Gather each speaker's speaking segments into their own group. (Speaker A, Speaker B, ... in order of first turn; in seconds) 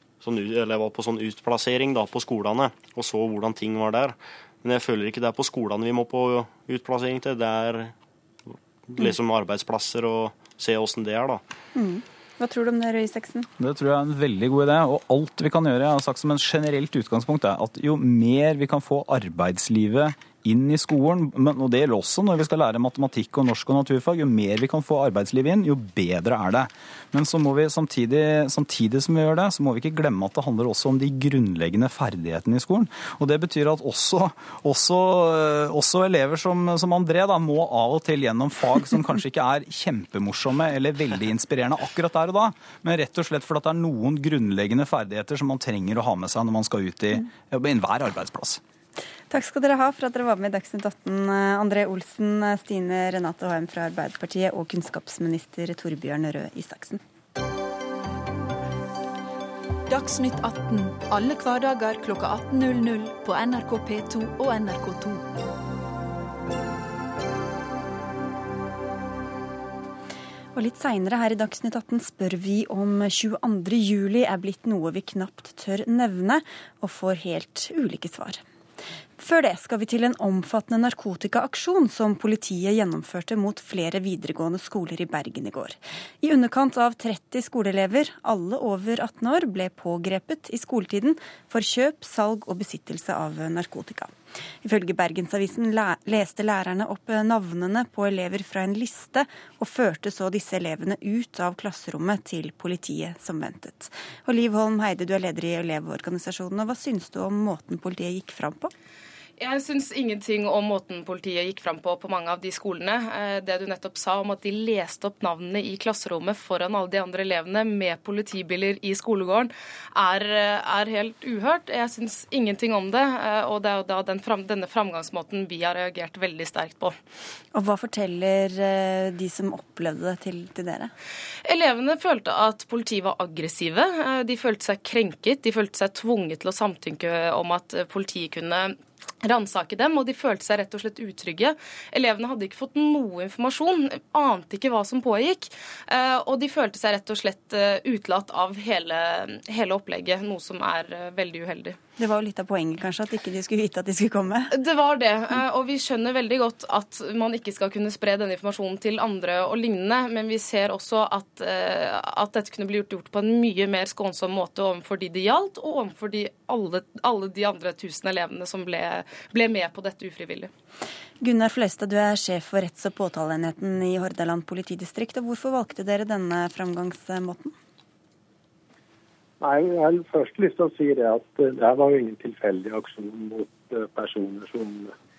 Speaker A: 0.2-7.9, 8.5-11.4
Speaker B: 11.7-13.5, 49.3-57.0, 70.5-78.4, 79.2-108.7, 127.5-130.9, 152.0-154.5, 171.2-177.5
Speaker C: 13.6-48.6
Speaker D: 59.9-65.3
Speaker E: 109.4-127.0, 131.4-151.8, 154.5-170.5
Speaker F: 179.4-184.9